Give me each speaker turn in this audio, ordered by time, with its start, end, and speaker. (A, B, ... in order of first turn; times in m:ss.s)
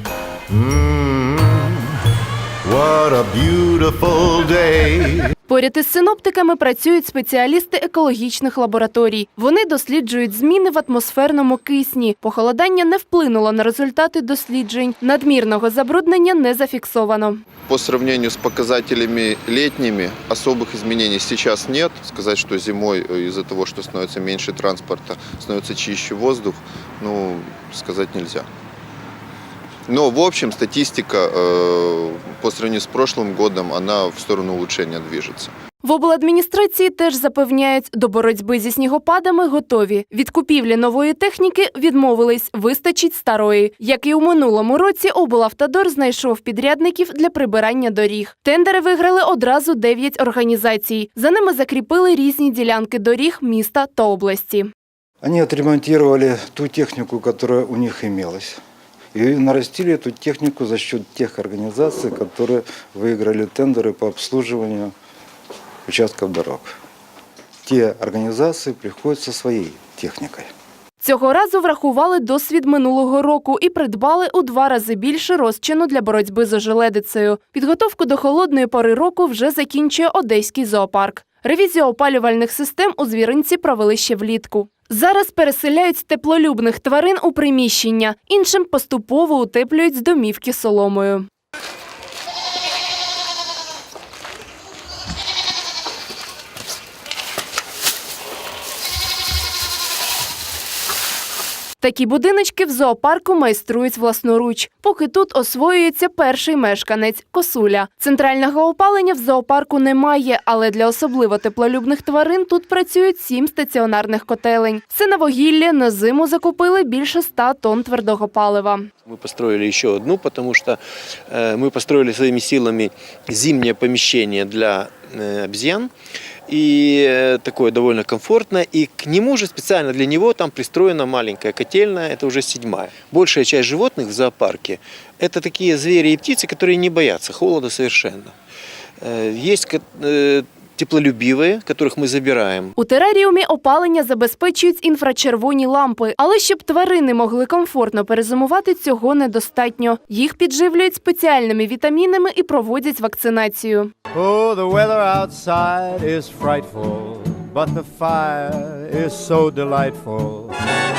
0:00.5-0:01.9 A
0:02.7-0:05.4 A
0:05.5-0:17.4 B
0:17.7-0:28.5 C
0:29.9-0:35.5 C
0:35.8-0:54.7 B
0:55.2-0:58.6 D
0:59.1-1:04.9 D
1:05.9-1:06.8 D
1:07.6-1:10.5 D
1:11.0-1:31.3 B
1:41.8-1:58.9 B
1:59.1-2:05.9 E
2:06.5-2:18.3 E
2:19.0-2:22.7 E
2:22.8-2:33.9 B
2:34.1-2:40.6 F